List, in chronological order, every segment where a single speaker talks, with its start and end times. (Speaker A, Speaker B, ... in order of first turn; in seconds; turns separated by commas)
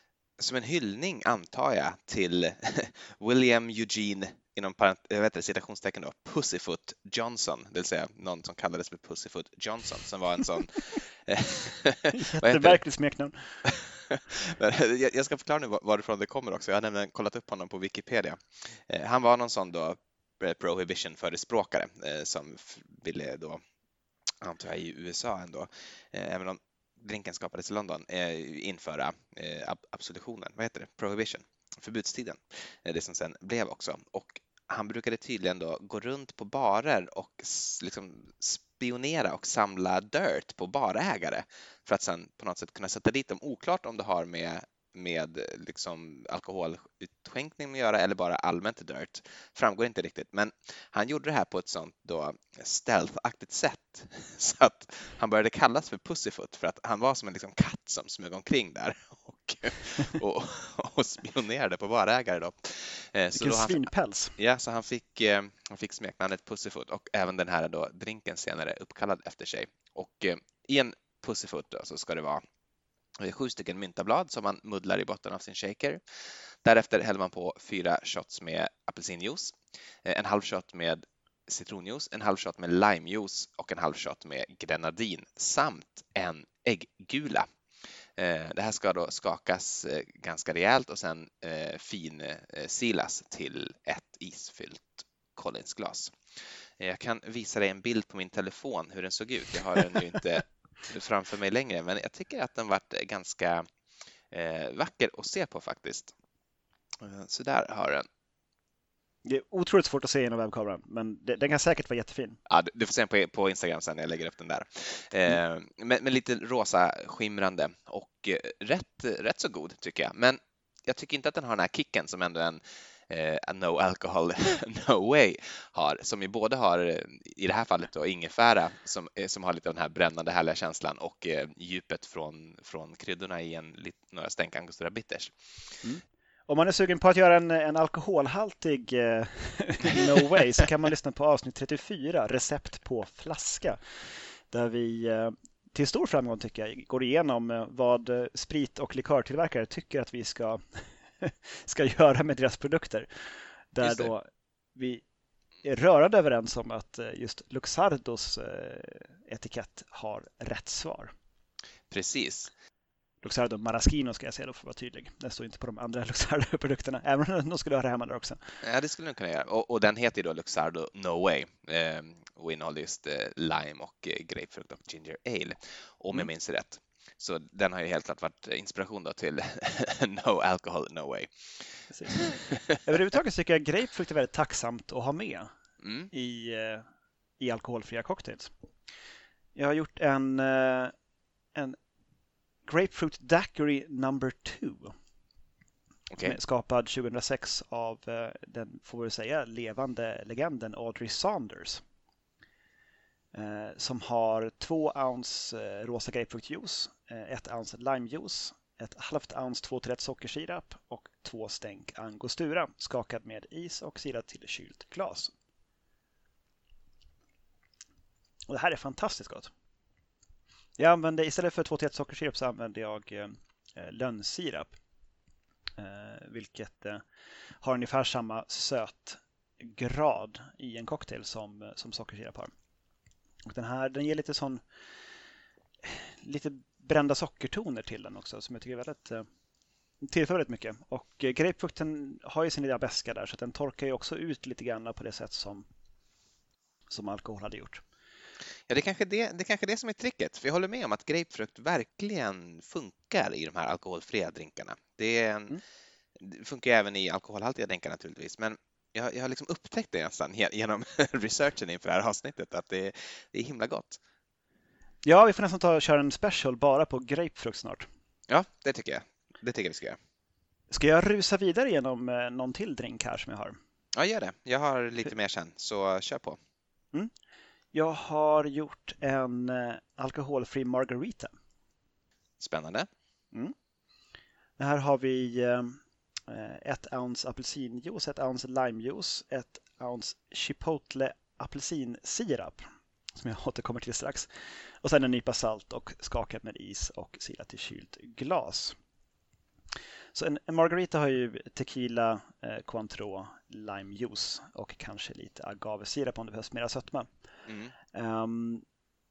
Speaker A: 0.4-12.8, Speaker B: 12.1-13.6, Speaker A: 13.6-23.6, Speaker A: 24.4-72.4, Speaker B: 63.4-64.4, Speaker A: 73.2-76.0, Speaker A: 76.6-87.5, Speaker A: 88.2-96.2, Speaker A: 96.8-103.7, Speaker A: 104.3-106.1, Speaker A: 107.0-108.1, Speaker B: 109.2-112.4, Speaker A: 112.5-135.3, Speaker B: 135.8-150.6, Speaker B: 151.2-153.1, Speaker B: 153.7-155.0, Speaker A: 153.8-154.1, Speaker B: 155.6-161.1, Speaker A: 161.9-162.5, Speaker B: 163.2-168.4, Speaker A: 168.6-181.3, Speaker B: 181.9-182.3, Speaker A: 182.1-182.6, Speaker B: 182.8-185.5, Speaker A: 185.8-186.1, Speaker B: 186.1-186.8, Speaker B: 187.4-188.5, Speaker B: 189.6-190.9, Speaker B: 192.7-194.9, Speaker A: 196.1-196.4, Speaker B: 196.2-201.8, Speaker B: 203.3-215.3, Speaker B: 218.5-219.5, Speaker B: 220.8-224.7, Speaker B: 225.8-227.0, Speaker B: 227.6-232.5, Speaker B: 233.5-234.6, Speaker B: 235.8-239.3, Speaker B: 240.0-245.7, Speaker B: 246.9-247.8, Speaker A: 248.7-255.6, Speaker A: 256.2-264.0, Speaker B: 265.0-267.9, Speaker A: 268.3-270.0, Speaker B: 270.7-273.6, Speaker A: 273.9-276.4, Speaker B: 277.7-281.3, Speaker A: 282.4-282.9, Speaker B: 284.6-292.6, Speaker B: 293.2-294.3, Speaker B: 294.8-298.8, Speaker B: 300.1-307.1, Speaker A: 307.5-307.7, Speaker B: 307.9-308.6